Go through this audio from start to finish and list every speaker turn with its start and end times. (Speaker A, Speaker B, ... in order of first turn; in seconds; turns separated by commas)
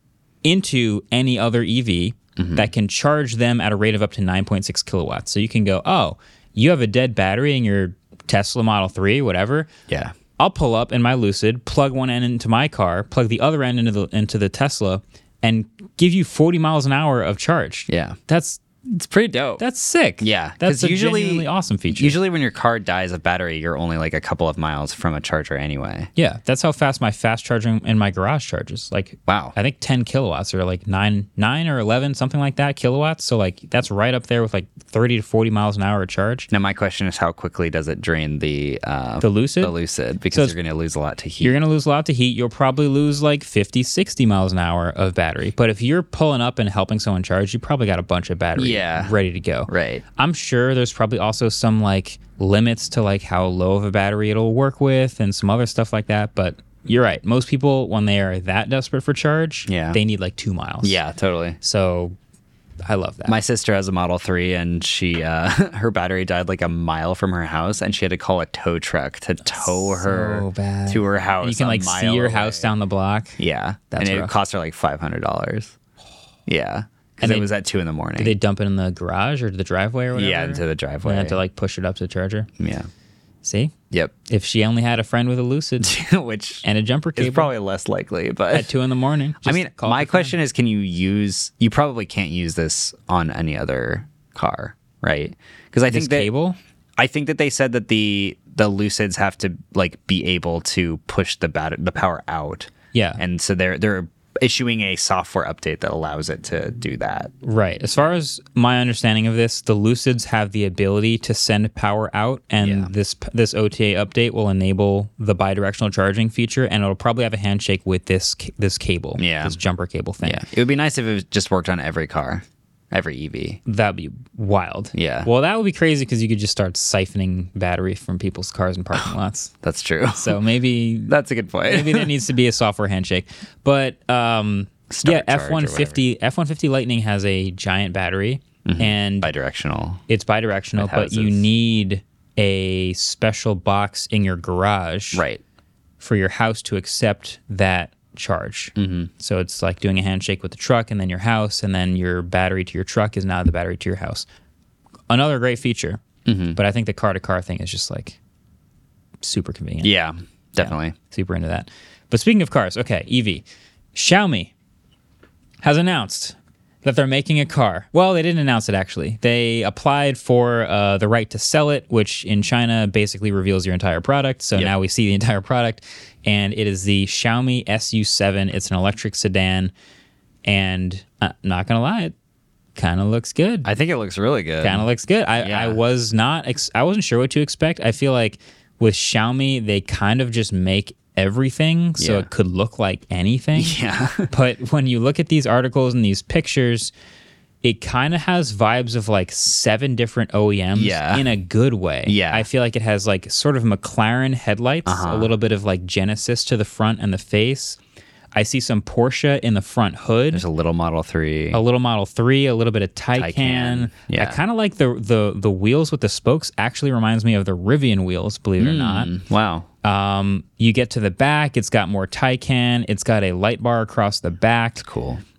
Speaker A: 0.4-9.7, Speaker B: 2.4-2.7, Speaker B: 9.9-10.1, Speaker A: 10.4-18.6, Speaker B: 17.9-18.2, Speaker B: 18.9-19.6, Speaker A: 19.6-22.2, Speaker B: 20.2-26.1, Speaker A: 26.1-36.5, Speaker B: 29.3-29.6, Speaker B: 36.5-41.5, Speaker A: 39.2-39.7, Speaker A: 41.4-61.0, Speaker B: 48.5-49.1, Speaker B: 49.7-50.0, Speaker B: 59.7-60.0, Speaker B: 60.8-61.6, Speaker A: 61.6-62.1, Speaker A: 62.8-63.4, Speaker B: 63.3-72.7, Speaker A: 69.5-73.4, Speaker B: 73.4-75.7, Speaker A: 73.9-74.3, Speaker B: 76.5-78.3, Speaker A: 77.2-77.5, Speaker A: 78.2-82.5, Speaker B: 80.1-81.4, Speaker B: 82.6-82.9, Speaker A: 83.4-83.7, Speaker A: 84.3-85.9, Speaker B: 85.8-86.6, Speaker A: 86.6-87.5, Speaker B: 87.2-88.7, Speaker A: 88.5-90.3, Speaker B: 89.4-96.3, Speaker A: 95.9-96.6, Speaker B: 97.0-107.3, Speaker A: 102.9-103.2, Speaker A: 107.4-120.4, Speaker B: 112.6-112.9, Speaker B: 119.2-119.6, Speaker B: 120.2-123.6, Speaker A: 123.7-129.5, Speaker B: 124.9-125.3, Speaker B: 129.6-130.4, Speaker A: 130.1-131.1, Speaker B: 131.1-132.1, Speaker A: 131.7-139.3, Speaker B: 134.9-136.0, Speaker B: 138.6-140.0, Speaker A: 140.1-145.2, Speaker B: 140.8-141.5, Speaker B: 145.1-145.4, Speaker A: 146.0-154.2, Speaker B: 148.8-149.1, Speaker A: 155.1-156.0, Speaker B: 156.2-156.6, Speaker A: 156.5-158.2, Speaker A: 159.2-159.9, Speaker B: 159.8-160.9, Speaker A: 160.6-163.4, Speaker A: 163.9-164.5, Speaker A: 165.6-179.7, Speaker A: 180.4-182.1, Speaker A: 182.8-183.7, Speaker B: 183.6-184.9, Speaker A: 184.6-196.9, Speaker B: 185.4-185.8, Speaker B: 192.0-192.3, Speaker B: 193.6-194.3, Speaker A: 197.6-207.8, Speaker B: 200.7-201.3, Speaker B: 202.1-202.5, Speaker B: 204.8-205.3, Speaker A: 208.3-210.4, Speaker B: 210.3-211.6, Speaker A: 211.5-219.1, Speaker B: 213.2-214.4, Speaker B: 218.6-219.7, Speaker A: 219.8-224.8, Speaker B: 224.8-225.2